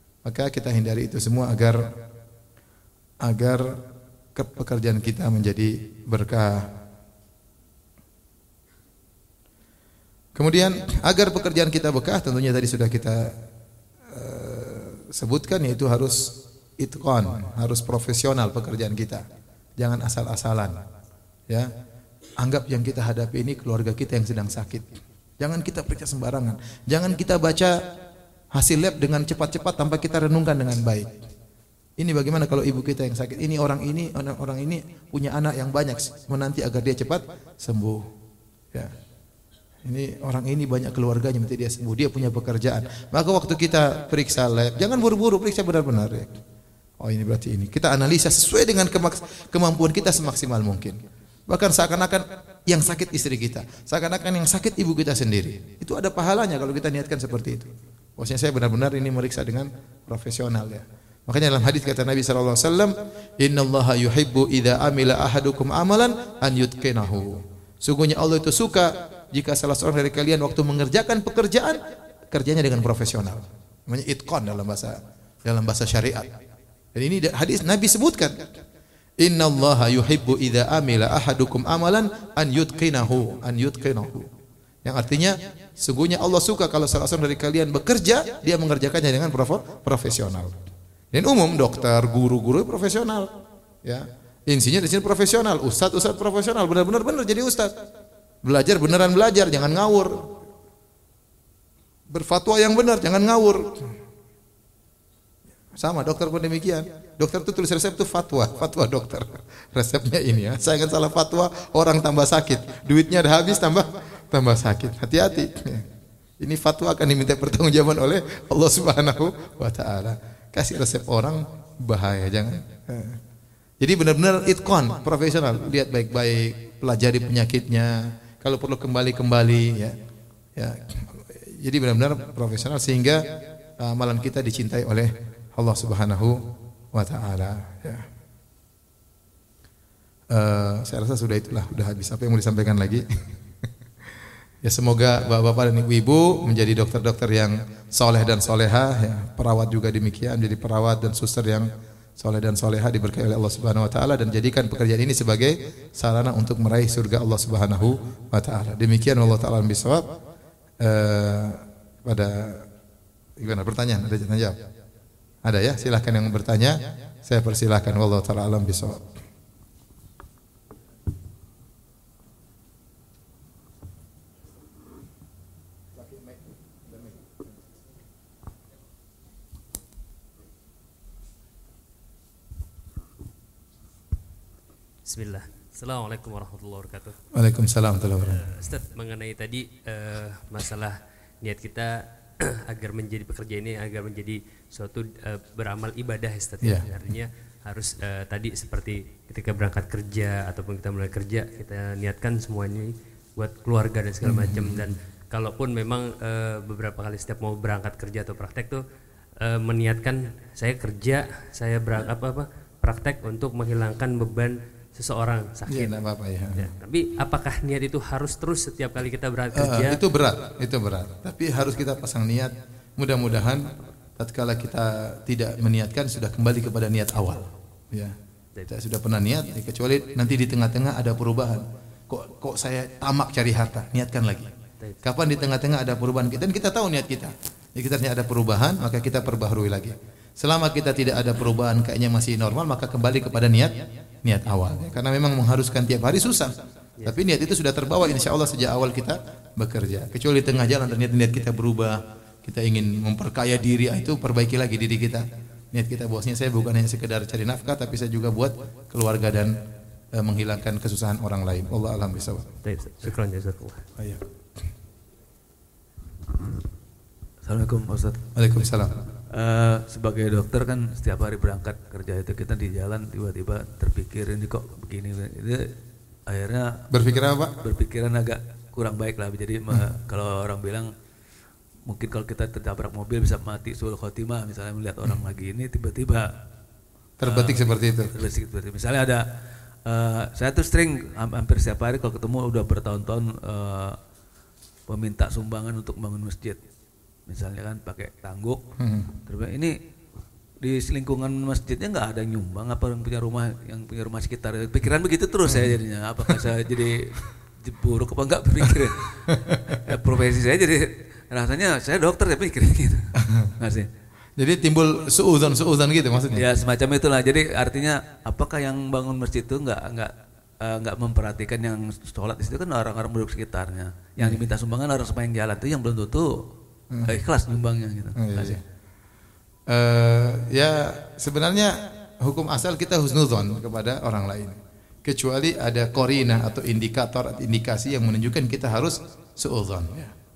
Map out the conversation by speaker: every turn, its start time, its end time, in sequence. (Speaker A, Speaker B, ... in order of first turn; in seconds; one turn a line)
Speaker A: 0.2-1.8
Speaker A: 3.2-3.7
Speaker A: 4.3-6.7
Speaker A: 10.4-13.3
Speaker A: 14.1-16.3
Speaker A: 16.8-19.2
Speaker A: 19.8-20.8
Speaker A: 22.4-27.8
Speaker A: 28.5-31.2
Speaker A: 32.0-38.0
Speaker A: 39.9-46.4
Speaker A: 47.0-71.8
Speaker A: 72.3-76.3
Speaker A: 77.0-78.4
Speaker A: 79.2-84.3
Speaker A: 84.8-90.6
Speaker A: 91.1-93.3
Speaker A: 93.8-97.7
Speaker A: 98.4-100.3
Speaker A: 102.1-103.9
Speaker A: 105.8-115.8
Speaker A: 116.4-123.2
Speaker A: 123.8-129.9
Speaker A: 130.6-133.2
Speaker A: 133.8-136.4
Speaker A: 136.9-138.1
Speaker A: 140.3-143.1
Speaker A: 144.6-160.0
Speaker A: 160.8-162.7
Speaker A: 163.4-164.6
Speaker A: 165.4-169.1
Speaker B: 185.1-187.2
Speaker A: 187.3-188.4
Speaker B: 188.1-208.8
Speaker A: 204.2-204.9
Speaker B: 209.4-216.0
Speaker A: 215.7-216.7
Speaker B: 216.6-220.0
Speaker A: 219.6-223.7
Speaker A: 224.2-228.2
Speaker A: 228.7-234.5
Speaker A: 235.0-246.5
Speaker A: 247.1-259.6
Speaker A: 260.1-263.1
Speaker B: 262.6-263.9
Speaker A: 264.0-264.2
Speaker C: 267.4-268.3
Speaker A: 268.4-269.0
Speaker C: 269.3-275.7
Speaker C: 276.3-276.8
Speaker A: 276.9-277.5
Speaker C: 277.6-280.9
Speaker C: 281.9-286.3
Speaker A: 287.2-288.1
Speaker C: 287.2-289.2
Speaker C: 289.9-294.0
Speaker C: 294.9-296.6
Speaker C: 297.3-298.6
Speaker A: 298.8-299.1
Speaker C: 299.3-299.7
Speaker C: 300.6-313.9
Speaker A: 305.5-305.8
Speaker A: 309.3-309.8
Speaker A: 313.2-313.5
Speaker A: 314.4-316.4
Speaker C: 316.3-320.1
Speaker C: 320.6-326.3
Speaker A: 326.9-327.2
Speaker C: 327.1-328.6
Speaker A: 328.2-328.6
Speaker A: 329.7-340.1